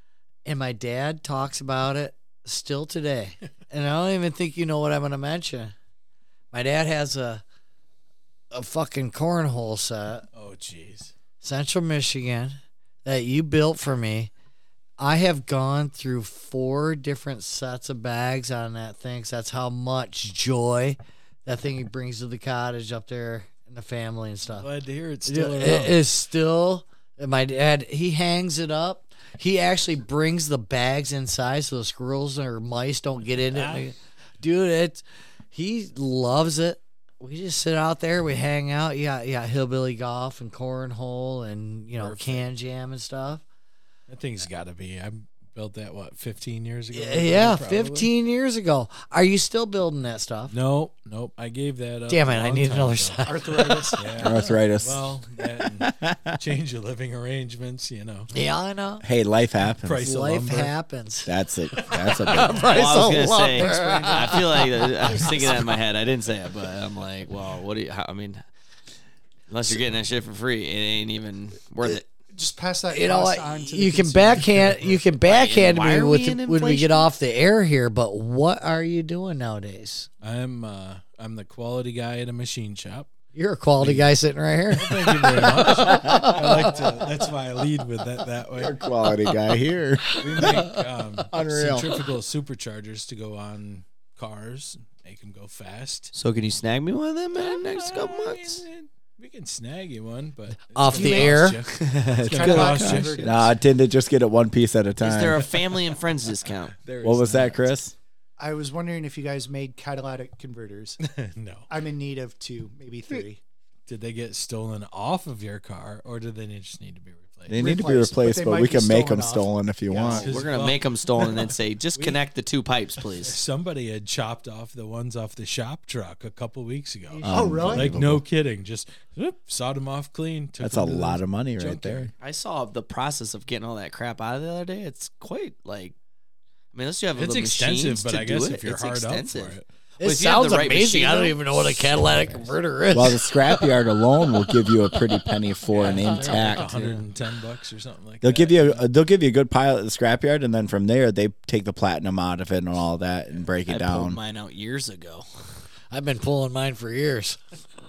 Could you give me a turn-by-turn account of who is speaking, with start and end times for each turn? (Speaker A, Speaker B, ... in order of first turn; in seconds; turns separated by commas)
Speaker A: 0.5-5.7, Speaker A: 6.5-7.4, Speaker A: 8.5-10.2, Speaker B: 10.3-11.1, Speaker A: 11.4-14.3, Speaker A: 15.0-24.7, Speaker B: 24.5-26.0, Speaker A: 25.2-43.4, Speaker B: 33.5-33.9, Speaker B: 42.0-42.5, Speaker B: 44.1-48.1, Speaker A: 46.9-50.5, Speaker B: 50.5-53.2, Speaker A: 52.1-54.0, Speaker C: 53.2-54.2, Speaker B: 54.0-58.3, Speaker D: 54.2-56.4, Speaker A: 58.3-59.0, Speaker D: 59.0-60.0, Speaker B: 59.8-60.7, Speaker A: 60.0-61.3, Speaker D: 61.2-62.7, Speaker B: 61.8-62.7, Speaker A: 62.0-65.2, Speaker E: 62.6-68.4, Speaker C: 62.8-65.7, Speaker E: 69.5-72.0, Speaker C: 72.3-75.0, Speaker A: 72.9-80.1, Speaker E: 75.2-77.1, Speaker B: 80.2-83.1, Speaker A: 83.3-86.8, Speaker B: 83.8-84.1, Speaker B: 84.7-88.8, Speaker D: 86.0-86.3, Speaker D: 88.5-90.7, Speaker B: 90.2-96.1, Speaker D: 91.3-91.9, Speaker E: 96.1-98.6, Speaker B: 97.3-103.4, Speaker A: 100.7-101.6, Speaker C: 100.9-101.5, Speaker E: 101.8-103.2, Speaker D: 102.1-105.5, Speaker C: 102.2-103.5, Speaker E: 105.0-106.8, Speaker B: 106.8-107.7, Speaker D: 107.0-107.9, Speaker C: 108.4-111.0, Speaker B: 111.0-111.7, Speaker C: 111.7-113.4, Speaker B: 113.9-117.6, Speaker D: 117.5-120.3, Speaker C: 117.5-120.2, Speaker B: 119.9-122.1, Speaker E: 120.1-123.4, Speaker B: 123.2-132.1, Speaker C: 127.2-128.0, Speaker D: 127.2-128.2, Speaker D: 130.6-132.1, Speaker E: 132.2-135.9, Speaker E: 136.7-142.5, Speaker B: 137.2-139.7, Speaker A: 140.0-143.7, Speaker D: 142.9-146.9, Speaker A: 144.6-145.0, Speaker B: 145.7-148.8, Speaker A: 145.9-147.0, Speaker D: 148.2-154.2, Speaker E: 153.6-155.5, Speaker A: 155.9-157.4